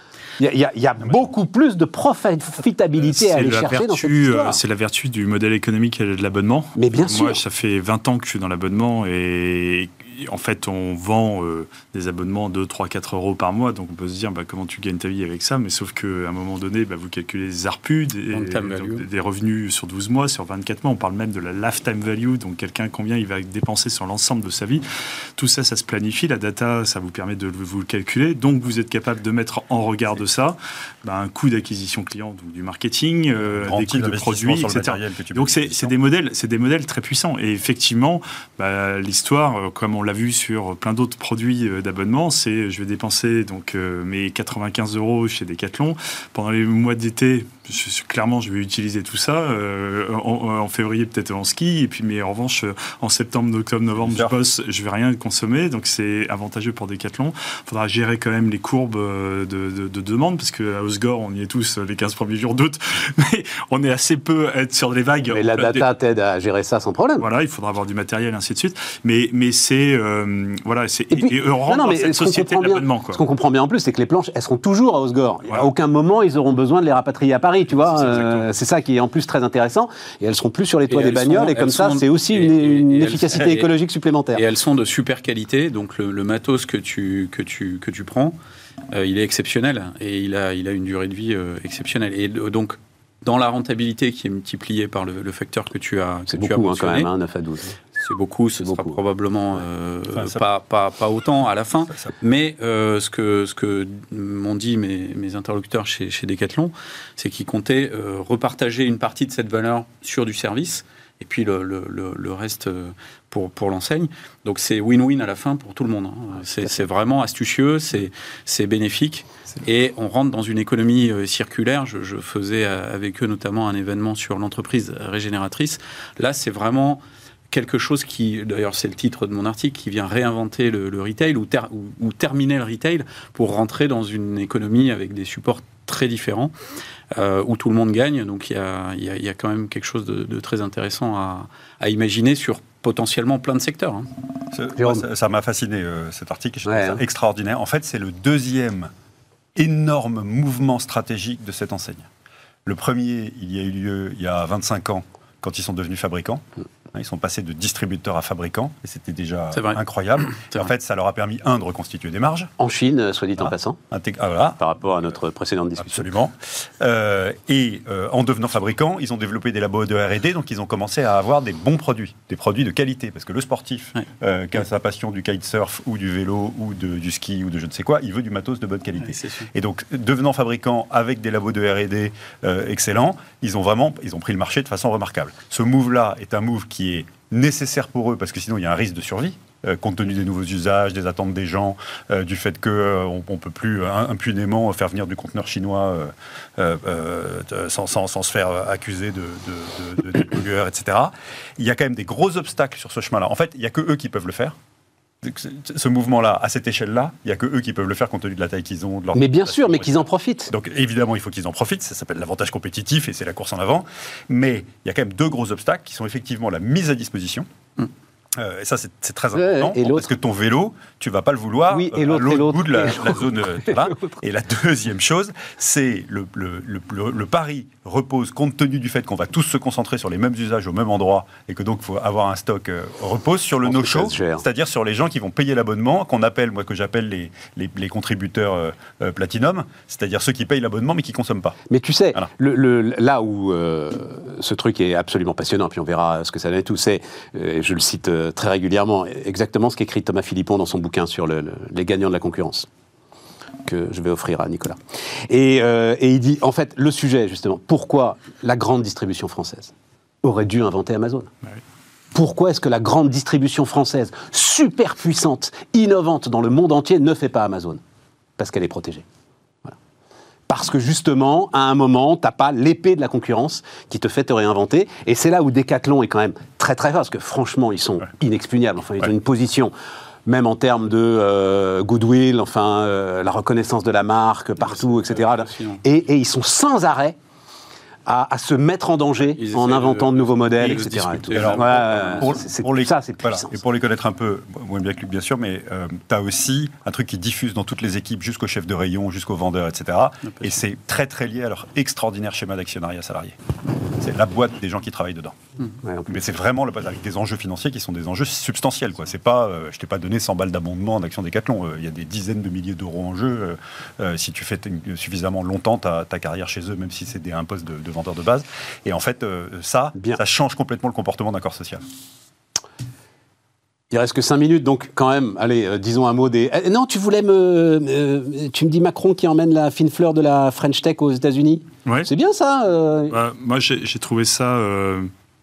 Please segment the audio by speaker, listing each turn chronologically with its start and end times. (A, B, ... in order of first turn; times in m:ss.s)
0:00.4-0:04.6 A
0:03.0-0:24.8 B
0:06.8-0:07.4 A
0:18.3-0:19.0 C
0:25.4-1:05.9 B
0:33.6-0:35.9 D
0:54.0-0:54.3 D
1:05.3-1:07.3 A
1:07.2-1:13.2 B
1:11.1-1:24.4 A
1:17.9-1:18.4 B
1:20.9-1:23.7 C
1:24.3-1:28.4 C
1:28.9-1:37.1 C
1:36.3-1:37.8 A
1:38.0-2:16.5 C
1:38.6-1:39.0 A
1:40.2-1:40.4 D
2:17.1-2:24.1 C
2:24.5-2:28.9 D
2:24.8-2:25.0 A
2:26.6-2:27.0 A
2:29.6-2:32.1 D
2:32.6-2:42.5 D
2:39.5-2:40.7 C
2:42.6-2:43.8 A
2:43.4-2:44.6 D
2:44.6-2:46.1 A
2:45.8-3:24.6 D
2:59.0-2:59.5 C
3:25.2-3:37.5 D
3:29.1-3:30.5 A
3:38.3-4:01.6 D
3:39.3-3:40.1 A
3:41.7-3:44.1 A
3:53.6-3:54.4 A
4:01.7-4:12.7 A
4:13.6-4:21.3 A
4:22.1-4:27.8 A
4:28.4-4:29.0 A
4:30.5-4:39.7 A
4:40.3-4:47.2 A
4:44.6-4:45.8 C
4:48.0-4:53.6 A
4:49.4-4:52.3 C
4:50.6-5:03.3 D
5:03.9-5:05.4 D
5:05.8-5:06.1 A
5:06.1-5:21.8 D
5:23.9-5:33.2 A
5:33.1-5:35.1 B